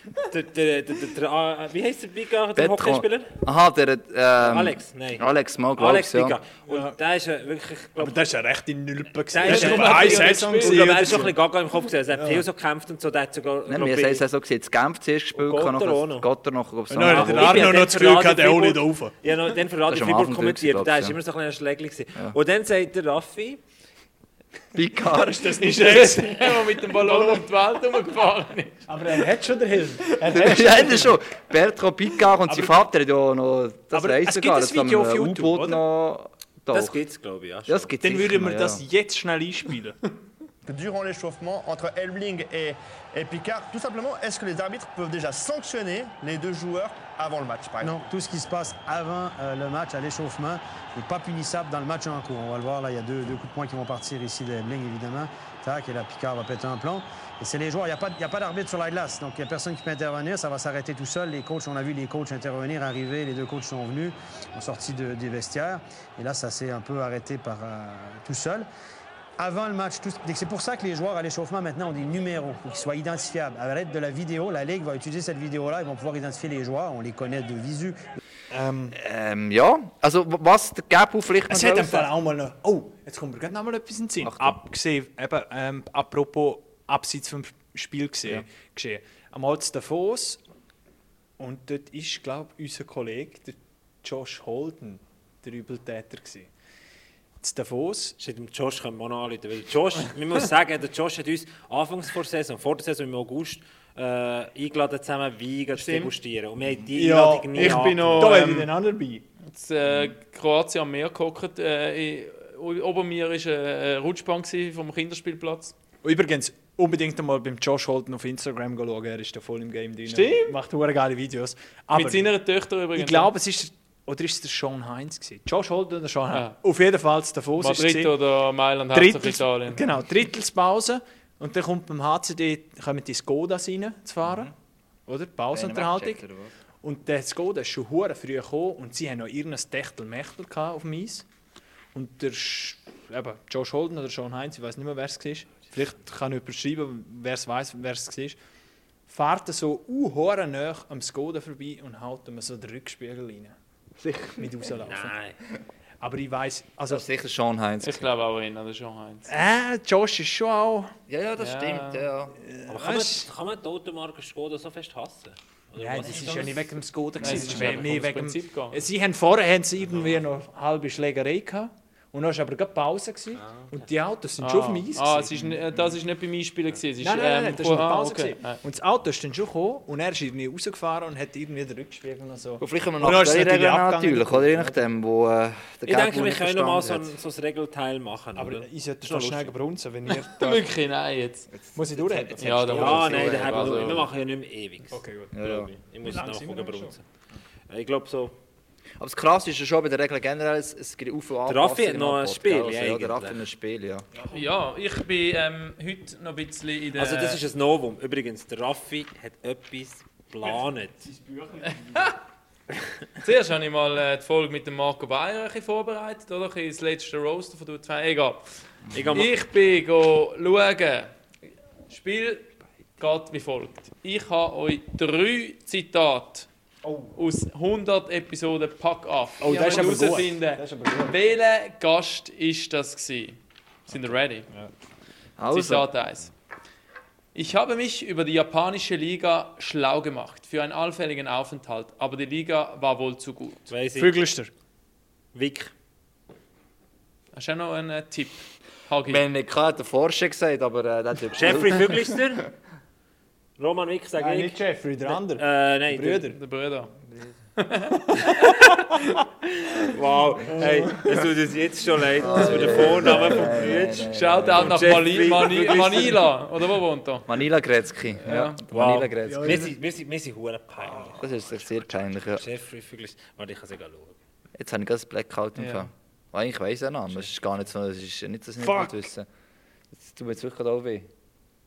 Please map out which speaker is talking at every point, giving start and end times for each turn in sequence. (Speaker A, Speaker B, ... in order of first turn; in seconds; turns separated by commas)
Speaker A: 0.2-3.3, Speaker B: 2.5-6.4, Speaker A: 4.4-8.2, Speaker C: 6.7-7.0, Speaker C: 8.0-11.3, Speaker A: 9.3-14.2, Speaker D: 9.4-11.2, Speaker C: 12.1-12.4, Speaker B: 13.7-17.8, Speaker A: 15.3-16.3, Speaker C: 16.9-19.1, Speaker A: 17.0-23.6, Speaker B: 19.9-21.2, Speaker B: 24.7-25.8, Speaker C: 25.2-27.4, Speaker D: 25.7-28.8, Speaker C: 28.9-31.2, Speaker B: 30.3-37.0, Speaker C: 32.5-32.8, Speaker C: 33.9-35.8, Speaker A: 36.7-37.9, Speaker B: 37.7-38.8, Speaker C: 38.0-40.0, Speaker E: 40.6-48.0, Speaker F: 47.8-68.7, Speaker F: 69.4-78.0, Speaker C: 78.5-79.0, Speaker B: 78.9-82.1, Speaker C: 81.5-90.4, Speaker B: 84.2-84.6, Speaker C: 91.4-96.5, Speaker C: 97.4-98.2, Speaker A: 98.2-108.4, Speaker C: 105.8-106.1, Speaker C: 106.9-109.2, Speaker D: 107.5-108.7, Speaker D: 109.5-115.7, Speaker C: 116.0-122.3, Speaker D: 120.0-120.6, Speaker D: 121.9-123.3, Speaker C: 122.9-128.1, Speaker D: 126.3-126.6, Speaker D: 127.6-129.8, Speaker C: 128.9-134.5, Speaker B: 134.2-134.5, Speaker C: 135.1-136.2, Speaker B: 135.5-136.5, Speaker C: 136.8-141.2, Speaker C: 141.9-148.4, Speaker C: 149.1-153.5, Speaker B: 154.0-154.6, Speaker C: 154.4-155.1, Speaker A: 154.8-155.4, Speaker C: 156.0-157.1, Speaker B: 156.9-158.1, Speaker D: 157.8-159.3, Speaker C: 159.3-160.9, Speaker B: 161.1-162.3, Speaker D: 161.4-162.1, Speaker C: 162.4-163.3, Speaker A: 162.7-167.9, Speaker C: 165.8-175.9, Speaker D: 167.2-168.8, Speaker A: 173.3-173.9, Speaker D: 174.4-178.6, Speaker C: 177.0-184.8, Speaker B: 182.6-187.2, Speaker A: 185.8-189.5, Speaker C: 188.3-190.7, Speaker D: 190.1-191.5, Speaker B: 191.5-194.0, Speaker C: 191.7-193.9, Speaker D: 192.4-194.1, Speaker A: 192.8-197.0, Speaker C: 194.9-197.0, Speaker B: 195.3-195.7, Speaker A: 197.7-198.3, Speaker B: 199.0-204.1, Speaker A: 201.4-203.4, Speaker C: 204.1-204.4, Speaker D: 204.3-207.4, Speaker A: 206.9-211.1, Speaker C: 211.0-212.1, Speaker D: 213.2-218.4, Speaker A: 218.9-219.3, Speaker D: 219.1-221.1, Speaker D: 221.9-226.5, Speaker C: 226.8-227.1, Speaker D: 227.2-233.4, Speaker C: 229.4-231.2, Speaker D: 233.9-234.5, Speaker B: 235.4-235.9, Speaker D: 235.5-236.3, Speaker D: 237.3-243.6, Speaker A: 243.7-244.2, Speaker C: 243.9-244.5, Speaker A: 245.3-245.7, Speaker D: 247.3-249.2, Speaker B: 249.0-252.2, Speaker A: 251.3-252.5, Speaker A: 253.6-256.2, Speaker C: 254.2-256.4, Speaker D: 256.3-256.9, Speaker D: 257.6-259.7, Speaker C: 258.1-258.8, Speaker A: 259.9-266.2, Speaker C: 260.5-261.2, Speaker B: 262.2-264.9, Speaker C: 262.4-263.4, Speaker D: 264.1-267.4, Speaker B: 267.3-269.7, Speaker D: 268.2-268.6, Speaker A: 268.7-271.6, Speaker C: 269.2-269.7, Speaker B: 271.2-272.4, Speaker A: 272.2-274.2, Speaker B: 274.6-279.3, Speaker D: 275.6-275.9, Speaker C: 278.6-279.1, Speaker B: 279.9-281.1